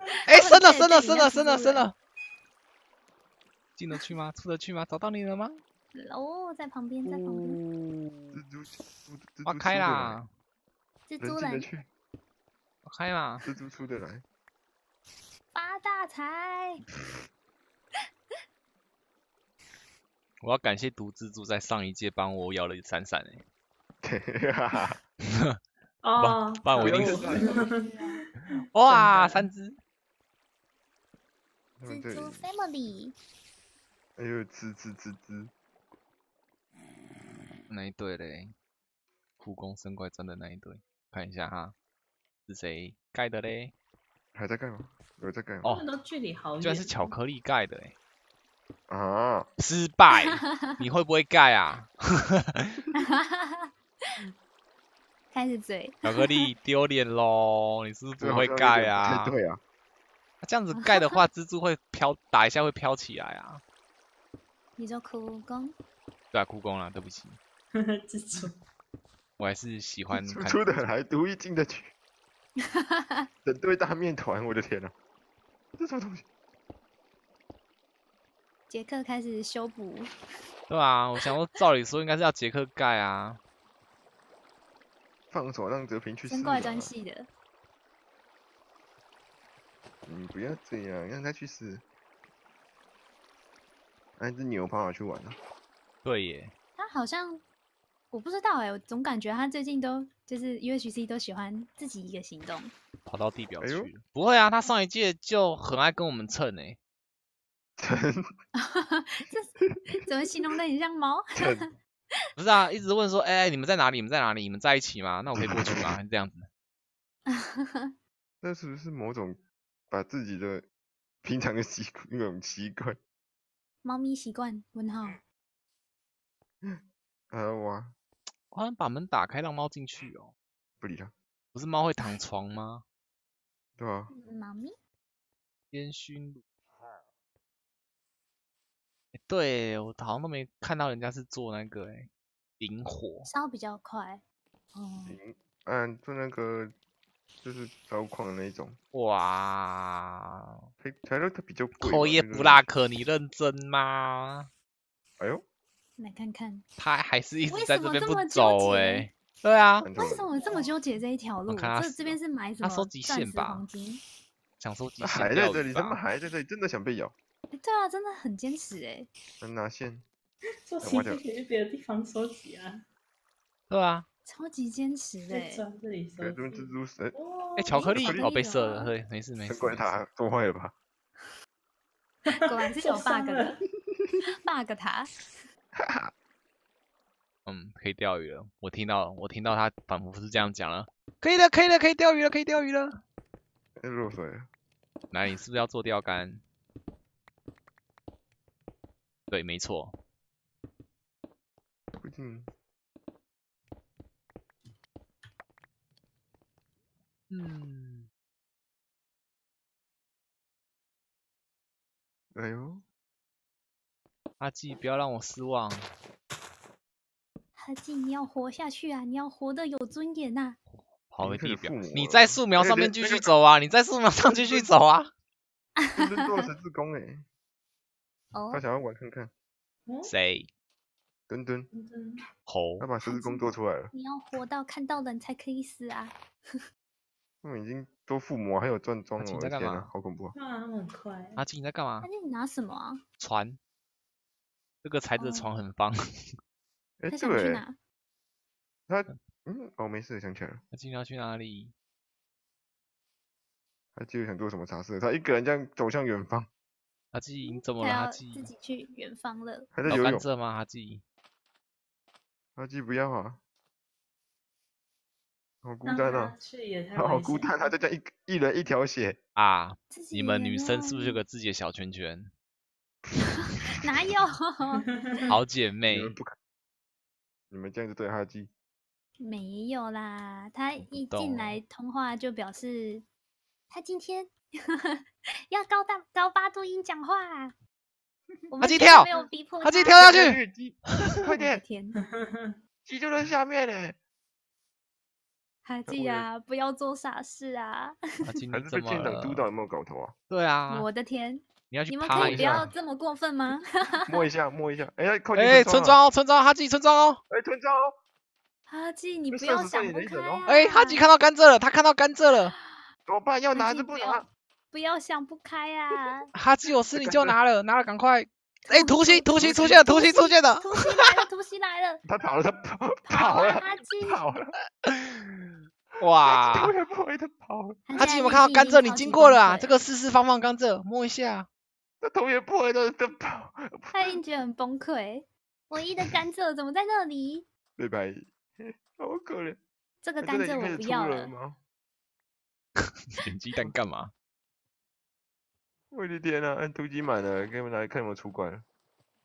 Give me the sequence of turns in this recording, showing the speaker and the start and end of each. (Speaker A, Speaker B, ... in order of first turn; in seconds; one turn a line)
Speaker A: 0.1-1.9
Speaker B: 0.2-1.9
Speaker B: 3.8-5.6
Speaker A: 5.9-7.6
Speaker B: 7.0-8.4
Speaker C: 8.3-10.2
Speaker B: 9.4-10.3
Speaker A: 11.1-11.7
Speaker C: 11.2-11.9
Speaker B: 12.8-13.4
Speaker C: 13.4-14.2
Speaker A: 15.5-16.8
Speaker B: 20.4-23.4
Speaker C: 24.0-25.0
Speaker B: 25.3-25.6
Speaker D: 26.0-29.3
Speaker B: 26.2-27.4
Speaker C: 26.7-27.6
Speaker A: 27.3-28.2
Speaker B: 28.7-29.8
Speaker C: 28.9-29.3
Speaker C: 31.8-32.4
Speaker A: 31.8-33.1
Speaker C: 34.2-35.5
Speaker B: 37.7-38.5
Speaker B: 39.4-41.7
Speaker B: 42.5-43.7
Speaker C: 44.3-45.7
Speaker D: 45.6-47.1
Speaker B: 46.6-47.9
Speaker C: 48.9-49.5
Speaker B: 49.6-52.8
Speaker A: 50.3-50.8
Speaker A: 53.0-53.7
Speaker A: 55.3-56.4
Speaker B: 56.0-59.3
Speaker C: 58.2-59.6
Speaker B: 60.4-63.6
Speaker A: 64.8-65.7
Speaker B: 66.3-67.4
Speaker D: 67.7-68.6
Speaker B: 69.4-70.9
Speaker C: 70.1-71.9
Speaker A: 72.6-73.3
Speaker C: 73.4-74.9
Speaker C: 75.8-76.2
Speaker A: 78.7-80.1
Speaker B: 80.7-83.4
Speaker C: 85.3-86.9
Speaker A: 86.2-87.3
Speaker C: 90.0-91.8
Speaker C: 94.2-95.4
Speaker B: 96.0-96.5
Speaker A: 96.8-97.4
Speaker A: 98.1-102.7
Speaker B: 103.0-106.8
Speaker C: 103.6-103.9
Speaker C: 107.8-108.2
Speaker A: 108.6-111.7
Speaker C: 111.3-111.7
Speaker B: 112.3-116.5
Speaker C: 115.3-115.9
Speaker A: 117.3-117.9
Speaker C: 118.4-120.6
Speaker C: 121.2-123.0
Speaker A: 123.8-125.2
Speaker C: 127.3-127.9
Speaker B: 128.5-130.3
Speaker C: 130.8-131.1
Speaker B: 131.5-132.8
Speaker C: 133.8-134.1
Speaker A: 134.1-134.7
Speaker B: 135.7-136.4
Speaker B: 139.1-143.3
Speaker A: 143.2-144.2
Speaker A: 144.7-145.2
Speaker C: 145.1-146.7
Speaker C: 147.4-148.8
Speaker B: 148.9-150.6
Speaker C: 150.8-152.7
Speaker B: 151.8-154.5
Speaker C: 155.2-155.4
Speaker A: 156.0-156.6
Speaker B: 156.8-159.9
Speaker A: 157.5-159.1
Speaker C: 159.8-160.3
Speaker A: 159.9-164.0
Speaker D: 160.1-161.0
Speaker B: 161.4-163.7
Speaker B: 164.6-166.0
Speaker C: 165.0-167.1
Speaker A: 167.5-169.1
Speaker C: 169.4-170.0
Speaker D: 170.7-172.8
Speaker C: 170.8-171.2
Speaker B: 173.7-174.1
Speaker A: 174.2-175.6
Speaker D: 175.3-178.9
Speaker C: 176.2-177.2
Speaker B: 177.6-179.9
Speaker C: 177.8-178.3
Speaker C: 179.4-180.7
Speaker D: 182.3-183.6
Speaker A: 182.3-183.6
Speaker C: 183.8-184.2
Speaker A: 184.3-185.1
Speaker C: 185.8-186.1
Speaker B: 187.4-193.0
Speaker C: 193.8-194.5
Speaker B: 195.1-196.4
Speaker B: 199.3-199.9
Speaker C: 202.0-202.5
Speaker B: 207.3-208.1
Speaker C: 212.3-212.8
Speaker B: 214.4-215.9
Speaker A: 217.6-220.6
Speaker B: 221.1-225.1
Speaker C: 221.2-223.3
Speaker C: 224.3-224.7
Speaker A: 225.8-226.1
Speaker C: 225.9-227.2
Speaker A: 228.3-228.6
Speaker C: 228.5-229.3
Speaker B: 230.0-230.5
Speaker C: 231.3-231.7
Speaker D: 231.7-232.2
Speaker B: 232.5-232.8
Speaker C: 232.8-233.9
Speaker A: 233.1-236.6
Speaker C: 237.4-240.3
Speaker B: 239.2-239.9
Speaker D: 240.3-241.4
Speaker B: 241.4-242.1
Speaker A: 242.0-243.0
Speaker B: 243.2-243.6
Speaker B: 244.8-246.3
Speaker A: 245.2-245.5
Speaker C: 247.0-247.6
Speaker A: 247.1-247.8
Speaker C: 248.9-250.6
Speaker B: 250.7-251.7
Speaker C: 253.9-256.5
Speaker B: 257.1-258.5
Speaker A: 257.4-259.7
Speaker C: 259.7-260.2
Speaker B: 259.9-261.0
Speaker C: 262.6-263.4
Speaker C: 265.6-266.3
Speaker D: 265.8-267.5
Speaker C: 266.9-269.2
Speaker B: 269.4-272.3
Speaker A: 269.9-271.2
Speaker A: 273.2-274.9
Speaker B: 275.3-276.1
Speaker C: 275.9-276.4
Speaker C: 277.5-278.5
Speaker A: 279.2-283.1
Speaker B: 280.8-281.6
Speaker A: 283.7-287.5
Speaker A: 288.5-290.1
Speaker B: 288.6-289.1
Speaker B: 289.6-290.4
Speaker C: 290.0-291.6
Speaker A: 291.3-292.0
Speaker D: 292.0-292.6
Speaker C: 292.8-294.0
Speaker A: 295.6-298.0
Speaker C: 295.9-296.3
Speaker B: 298.2-299.4
Speaker C: 298.5-300.1
Speaker B: 300.3-300.9
Speaker A: 300.7-304.2
Speaker B: 301.7-302.7
Speaker C: 302.1-302.7
Speaker C: 304.1-306.0
Speaker B: 305.3-307.2
Speaker C: 307.3-308.0
Speaker A: 308.7-311.0
Speaker C: 309.3-310.4
Speaker B: 310.5-312.6
Speaker C: 313.1-314.3
Speaker A: 313.5-316.3
Speaker B: 316.3-321.1
Speaker C: 316.9-317.4
Speaker A: 318.6-322.0
Speaker C: 319.4-319.8
Speaker C: 322.1-324.5
Speaker A: 323.0-324.2
Speaker B: 324.9-326.7
Speaker C: 326.2-327.8
Speaker A: 327.9-329.8
Speaker B: 327.9-331.5
Speaker C: 332.0-334.2
Speaker A: 333.9-337.5
Speaker C: 337.8-339.6
Speaker A: 340.0-341.3
Speaker C: 340.2-341.6
Speaker B: 343.1-344.1
Speaker C: 345.9-348.6